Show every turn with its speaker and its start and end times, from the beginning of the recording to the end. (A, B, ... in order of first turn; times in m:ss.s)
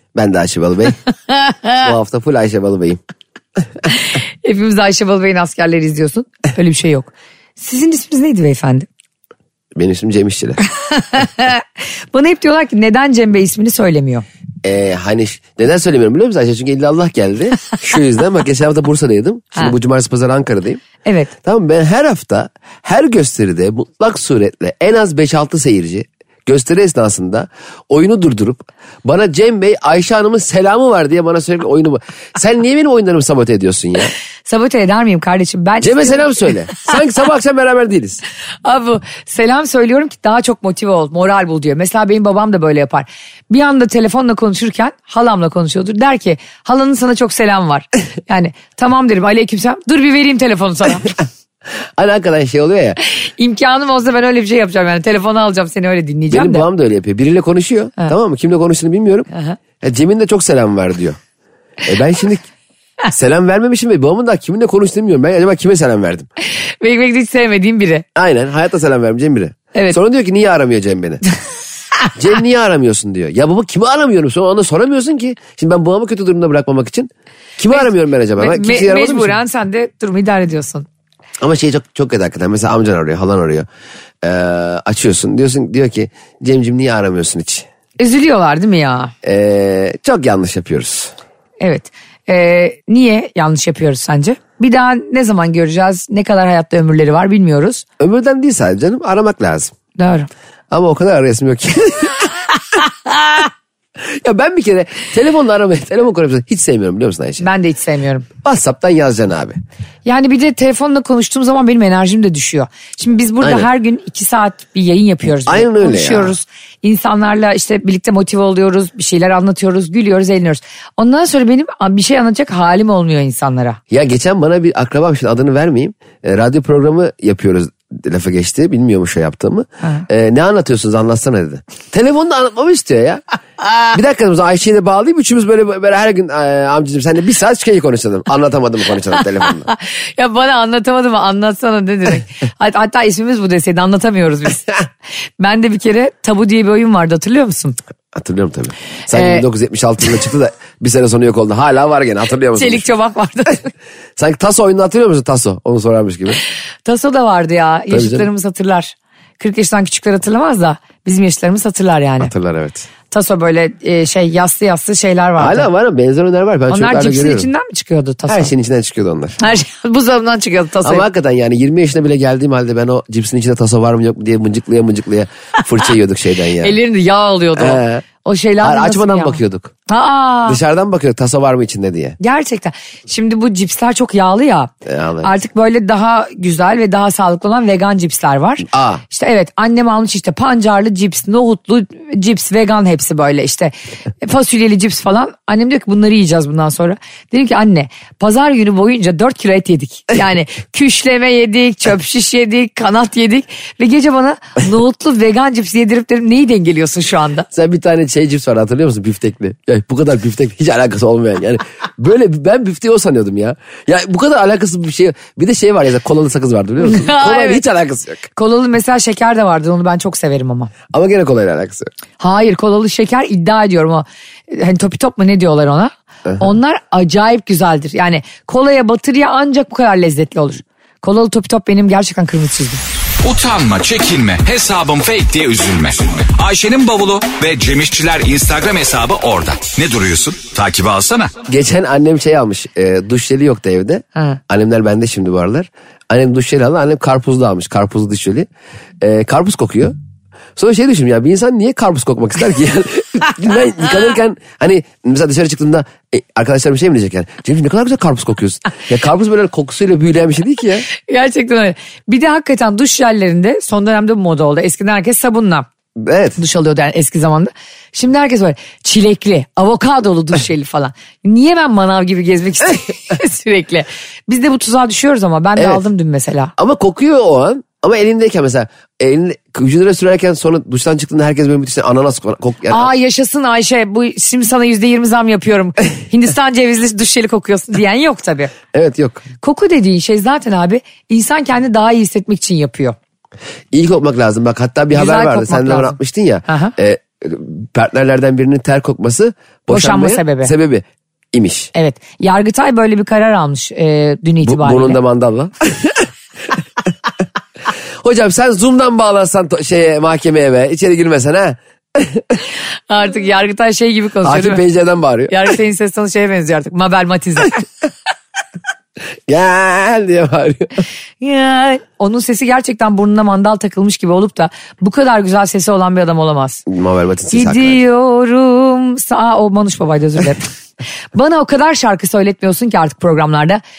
0:00.2-0:01.0 A
0:01.3-0:01.9 B
0:01.8-0:03.0 A
0:03.9-0:08.9 B
0:09.8-0:10.6 A
0:10.7-0:14.2 B
0:14.6-0:20.8 A
0:21.0-0:21.3 B
0:21.4-0:34.1 A
0:34.5-0:36.8 B
0:35.8-0:38.2 A
0:38.6-0:51.1 B
0:52.0-0:53.0 A
0:53.0-0:56.7 B
0:56.3-0:59.3 A
0:59.3-0:59.6 B
0:59.8-1:01.2 A
1:01.8-1:02.5 A
1:03.1-1:06.3 A
1:06.5-1:08.0 B
1:08.2-1:11.2 A
1:12.2-1:19.4 A
1:17.7-1:20.9 B
1:21.4-1:23.7 A
1:24.2-1:27.7 A
1:28.0-1:29.1 B
1:29.2-1:31.1 A
1:31.6-1:37.8 B
1:38.0-1:39.7 A
1:40.0-1:40.3 B
1:40.7-1:42.3 A
1:44.1-1:47.5 A
1:47.4-1:48.3 B
1:48.4-1:49.6 A
1:50.0-2:03.8 B
1:53.4-1:53.7 A
1:55.5-1:56.4 A
2:03.9-2:13.2 A
2:13.9-2:19.7 A
2:19.4-2:24.8 B
2:25.4-2:27.8 B
2:28.1-2:32.9 A
2:29.1-2:29.4 B
2:32.6-2:33.7 B
2:34.2-2:36.4 A
2:36.8-2:42.3 B
2:37.9-2:38.3 A
2:42.2-2:42.9 A
2:43.1-2:45.7 B
2:45.4-2:47.5 A
2:46.7-2:48.5 B
2:48.3-2:49.4 A
2:49.4-2:51.0 B
2:50.8-2:56.8 A
2:56.6-3:00.6 B
2:57.6-2:58.1 A
2:58.6-2:59.7 A
3:00.5-3:02.2 A
3:02.2-3:27.5 B
3:04.8-3:05.3 A
3:08.7-3:09.0 A
3:27.5-3:38.3 A
3:36.8-3:37.6 B
3:38.4-3:40.7 B
3:40.9-3:41.9 A
3:42.2-3:52.8 B
3:53.2-4:01.3 C
4:01.5-4:08.5 A
4:09.0-4:10.0 A
4:10.6-4:20.9 A
4:21.0-4:25.7 B
4:26.0-4:26.4 A
4:26.4-4:36.5 B
4:35.6-4:35.8 A
4:36.6-4:42.9 A
4:42.7-4:48.5 B
4:48.7-4:49.2 A
4:49.4-4:53.0 B
4:53.7-5:01.7 A
4:54.9-4:56.7 B
4:59.7-5:00.5 B
5:01.8-5:05.0 B
5:04.4-5:06.1 A
5:08.0-5:12.4 A
5:12.9-5:14.6 B
5:14.2-5:15.4 A
5:15.3-5:17.6 B
5:19.3-5:20.8 A
5:21.2-5:26.6 B
5:26.7-5:27.8 A
5:27.3-5:30.5 B
5:31.1-5:33.6 B